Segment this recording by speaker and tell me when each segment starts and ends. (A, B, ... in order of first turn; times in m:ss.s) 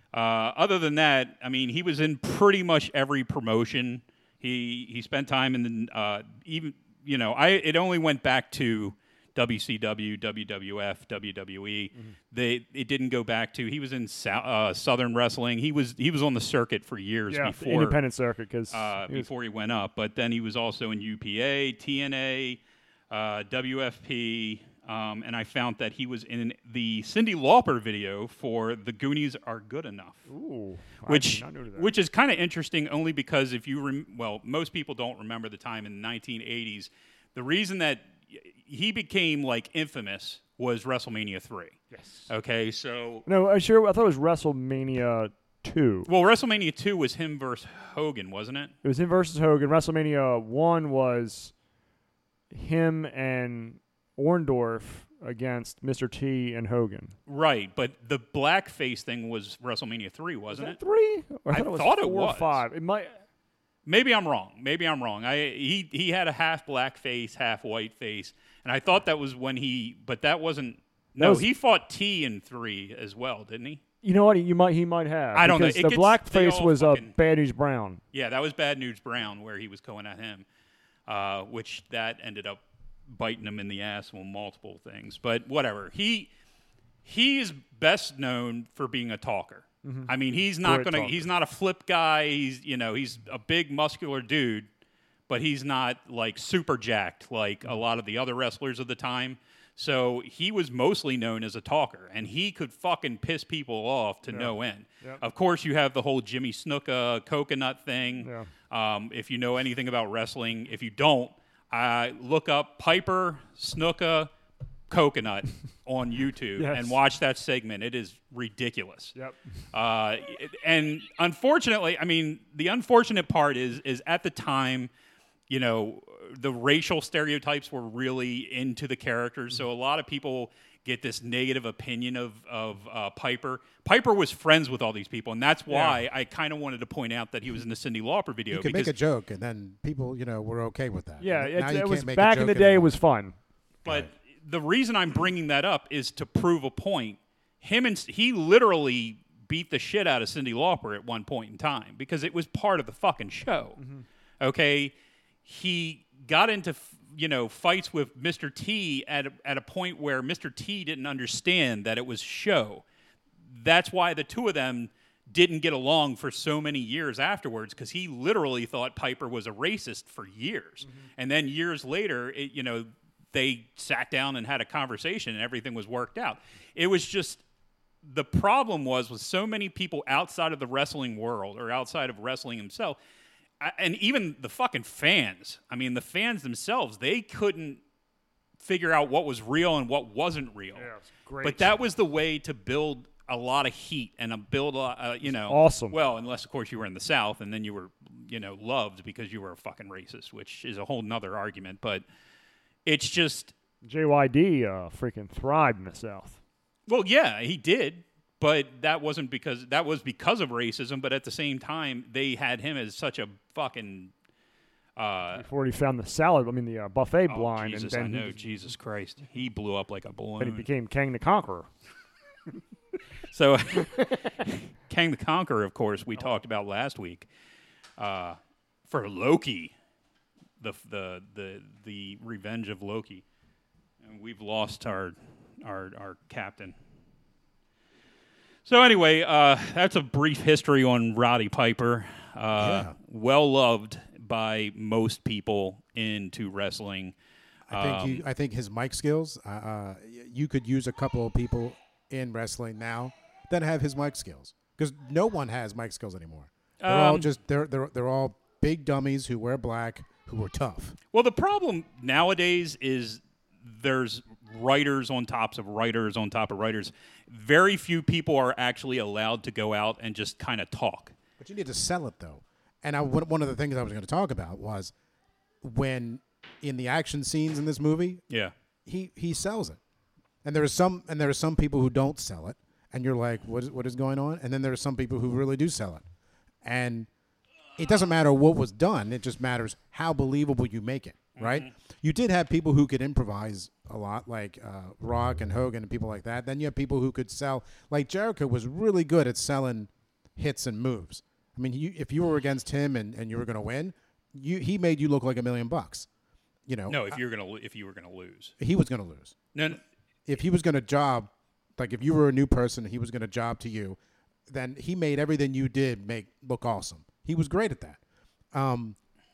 0:00.1-0:18.0 A
0:17.3-0:19.3 B
0:18.7-0:30.3 A
0:30.3-0:31.9 B
0:31.1-0:43.3 A
0:41.9-0:42.3 B
0:43.3-0:46.1 B
0:46.1-0:48.7 A
0:48.8-0:51.5 B
0:52.5-0:57.1 B
0:57.3-1:00.8 A
1:00.5-1:03.2 B
1:01.5-1:02.6 A
1:03.9-1:13.8 A
1:11.2-1:11.5 B
1:14.0-1:18.0 B
1:15.4-1:17.1 A
1:18.1-1:20.5 A
1:21.1-1:26.3 A
1:27.0-1:34.7 A
1:29.8-1:31.2 B
1:35.3-1:54.3 A
1:44.3-1:45.2 B
1:48.2-1:48.5 B
1:54.9-1:59.2 A
1:56.6-1:57.0 B
1:59.7-2:04.9 A
2:05.5-2:18.9 A
2:15.7-2:16.0 B
2:18.5-2:22.9 C
2:21.2-2:23.4 B
2:23.8-2:33.8 A
2:33.8-2:34.0 B
2:34.4-2:34.9 A
2:35.4-2:42.8 A
2:43.5-2:57.4 A
2:58.0-3:03.0 A
3:03.6-3:07.8 A
3:08.6-3:10.9 A
3:10.8-3:11.8 B
3:11.4-3:22.0 A
3:15.5-3:16.0 B
3:22.9-3:23.5 A
3:23.8-3:26.4 B
3:26.9-3:34.1 A
3:35.0-3:35.4 A
3:35.4-3:38.4 B
3:37.3-3:40.7 A
3:40.4-3:41.7 B
3:43.3-3:47.3 A
3:48.0-3:49.7 A
3:50.6-3:53.2 A
3:54.0-3:56.8 A
3:58.7-4:07.1 A
4:02.6-4:02.9 C
4:07.7-4:21.0 C
4:07.7-4:08.2 A
4:16.8-4:17.3 A
4:21.1-4:31.1 A
4:31.4-4:34.9 C
4:35.6-4:38.2 C
4:38.9-4:39.8 C
4:40.4-4:46.0 C
4:46.6-4:47.1 C
4:47.8-5:06.1 C
4:51.4-4:51.7 A
5:06.7-5:07.2 C
5:06.9-5:08.5 A
5:08.6-5:09.4 C
5:09.5-5:09.8 A
5:10.3-5:18.0 C
5:18.5-5:19.0 C